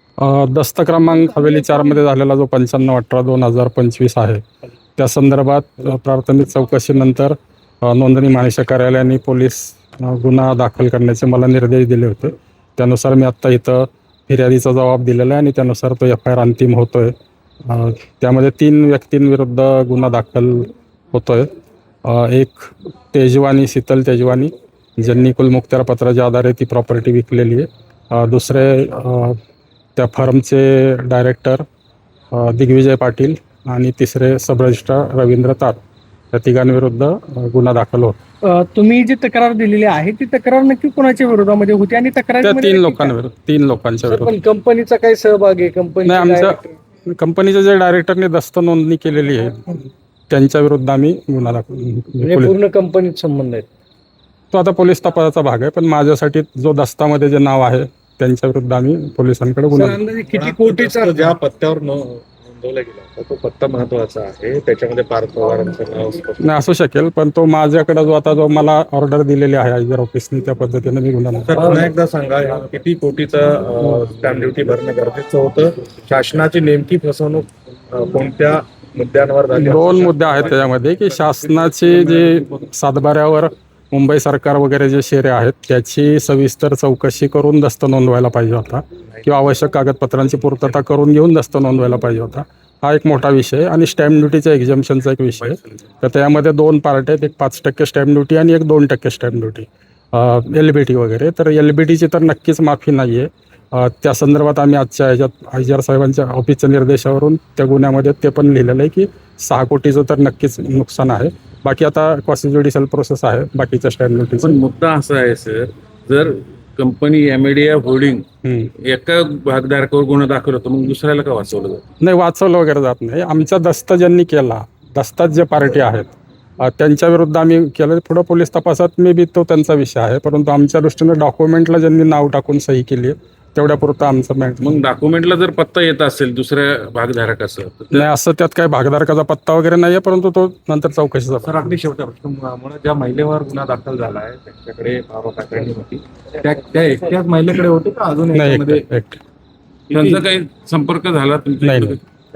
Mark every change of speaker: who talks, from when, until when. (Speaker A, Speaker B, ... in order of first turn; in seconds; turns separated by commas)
Speaker A: 0.2-4.4, Speaker A: 5.0-17.1, Speaker A: 17.6-21.5, Speaker A: 22.1-29.4, Speaker A: 30.0-31.6, Speaker A: 32.3-35.8, Speaker A: 36.3-38.2, Speaker B: 38.5-41.7, Speaker C: 38.5-43.1, Speaker A: 42.4-44.4, Speaker B: 44.0-46.7, Speaker A: 46.0-46.6, Speaker A: 47.1-52.5, Speaker B: 52.2-53.7, Speaker A: 54.5-60.0, Speaker B: 59.7-61.3, Speaker D: 60.3-66.5, Speaker A: 66.4-71.9, Speaker D: 71.5-80.7, Speaker A: 79.5-114.6, Speaker D: 81.8-82.5, Speaker E: 114.4-118.2, Speaker A: 118.4-118.7, Speaker E: 118.8-121.8, Speaker A: 122.0-134.7, Speaker E: 134.6-138.1, Speaker A: 137.9-141.7, Speaker D: 141.4-148.8, Speaker A: 148.3-149.2, Speaker E: 149.9-152.0, Speaker A: 151.6-152.0